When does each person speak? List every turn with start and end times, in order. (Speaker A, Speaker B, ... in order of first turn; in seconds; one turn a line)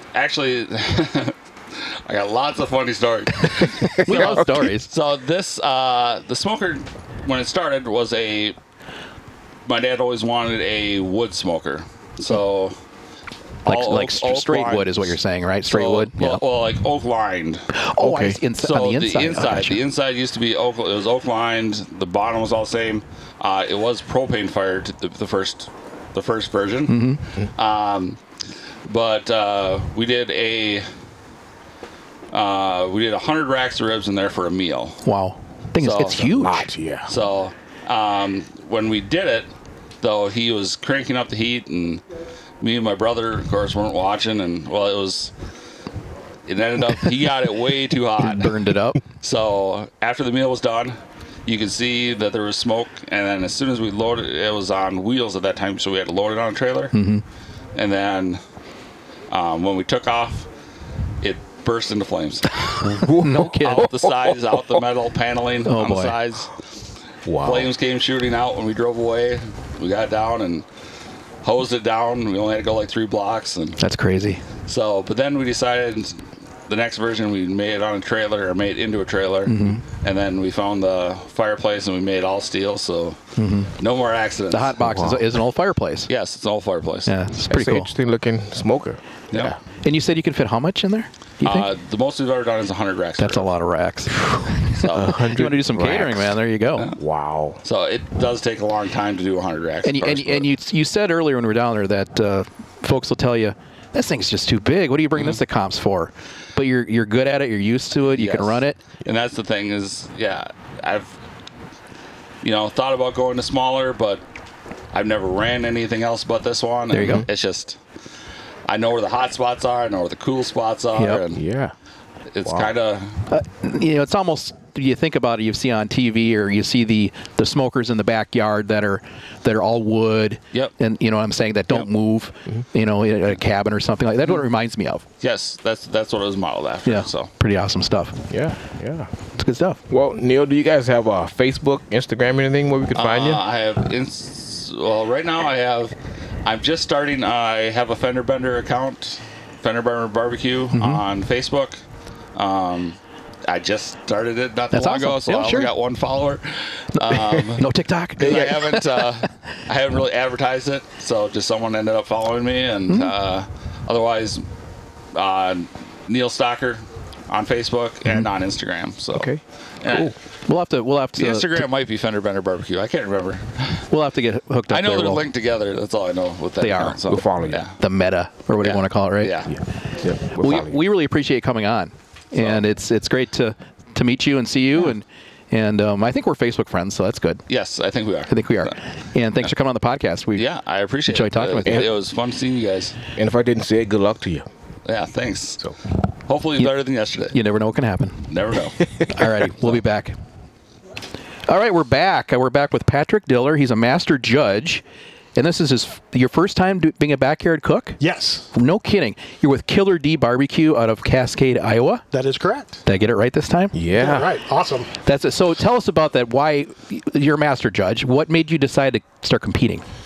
Speaker A: 0.1-8.6
Speaker B: 3.8-4.6
Speaker C: 4.0-4.9
Speaker A: 9.7-12.8
Speaker A: 13.7-15.2
Speaker C: 13.7-16.4
Speaker A: 15.7-17.7
Speaker C: 17.7-19.8
Speaker B: 18.0-18.4
Speaker A: 18.6-28.2
Speaker C: 26.9-27.2
Speaker A: 28.9-30.9
Speaker A: 32.3-35.0
Speaker C: 35.0-36.7
Speaker A: 35.8-36.3
Speaker B: 36.2-37.1
Speaker A: 37.1-39.5
Speaker A: 40.0-42.0
Speaker A: 42.6-45.3
Speaker A: 46.5-48.6
Speaker C: 48.2-49.0
Speaker A: 49.2-57.0
Speaker C: 56.9-57.2
Speaker A: 57.8-58.4
Speaker A: 59.3-60.5
Speaker A: 61.2-66.5
Speaker C: 62.8-63.9
Speaker B: 62.9-64.6
Speaker C: 65.7-66.2
Speaker B: 67.3-67.7
Speaker A: 67.4-70.7
Speaker A: 71.4-73.8
Speaker C: 73.8-74.4
Speaker A: 74.7-83.2
Speaker C: 79.5-79.8
Speaker C: 83.4-83.7
Speaker A: 83.8-84.8
Speaker C: 84.5-86.1
Speaker B: 84.8-85.2
Speaker A: 86.1-87.1
Speaker C: 87.1-87.9
Speaker B: 87.5-89.6
Speaker C: 89.8-91.7
Speaker A: 91.4-93.5
Speaker C: 93.2-96.9
Speaker A: 94.7-95.2
Speaker B: 94.9-96.3
Speaker B: 96.9-97.6
Speaker A: 97.6-100.5
Speaker C: 99.8-108.8
Speaker A: 108.1-111.2
Speaker A: 112.4-114.2
Speaker A: 114.9-117.8
Speaker C: 116.9-117.3
Speaker B: 117.0-117.3
Speaker A: 118.7-121.4
Speaker C: 121.0-121.2
Speaker B: 121.3-121.7
Speaker A: 122.3-123.2
Speaker C: 123.3-135.0
Speaker A: 135.2-137.3
Speaker C: 136.9-138.2
Speaker B: 138.3-139.1
Speaker C: 139.4-139.8
Speaker B: 139.9-143.4
Speaker A: 142.9-151.8
Speaker C: 150.7-151.0
Speaker A: 152.3-164.5
Speaker C: 154.7-155.7
Speaker C: 156.9-159.1
Speaker C: 162.9-163.1
Speaker A: 165.1-170.1
Speaker B: 169.1-170.1
Speaker C: 170.5-171.7
Speaker A: 171.2-173.9
Speaker C: 173.9-175.3
Speaker A: 174.7-177.8
Speaker C: 176.6-177.2
Speaker B: 177.1-177.6
Speaker C: 177.8-179.5
Speaker A: 178.6-179.5
Speaker B: 179.5-180.8
Speaker C: 180.3-187.4
Speaker A: 182.4-182.6
Speaker A: 187.5-188.8
Speaker C: 188.3-190.5
Speaker A: 190.3-193.0
Speaker C: 191.1-191.9
Speaker B: 193.2-194.5
Speaker A: 194.8-195.7
Speaker A: 196.3-197.4
Speaker C: 197.3-198.3
Speaker A: 198.3-199.0
Speaker C: 199.1-200.2
Speaker C: 201.5-204.8
Speaker C: 205.4-208.0
Speaker D: 208.0-208.5
Speaker C: 208.5-212.0
Speaker D: 212.1-212.8
Speaker C: 212.9-213.8
Speaker B: 213.7-214.3
Speaker D: 213.9-214.9
Speaker C: 215.1-219.8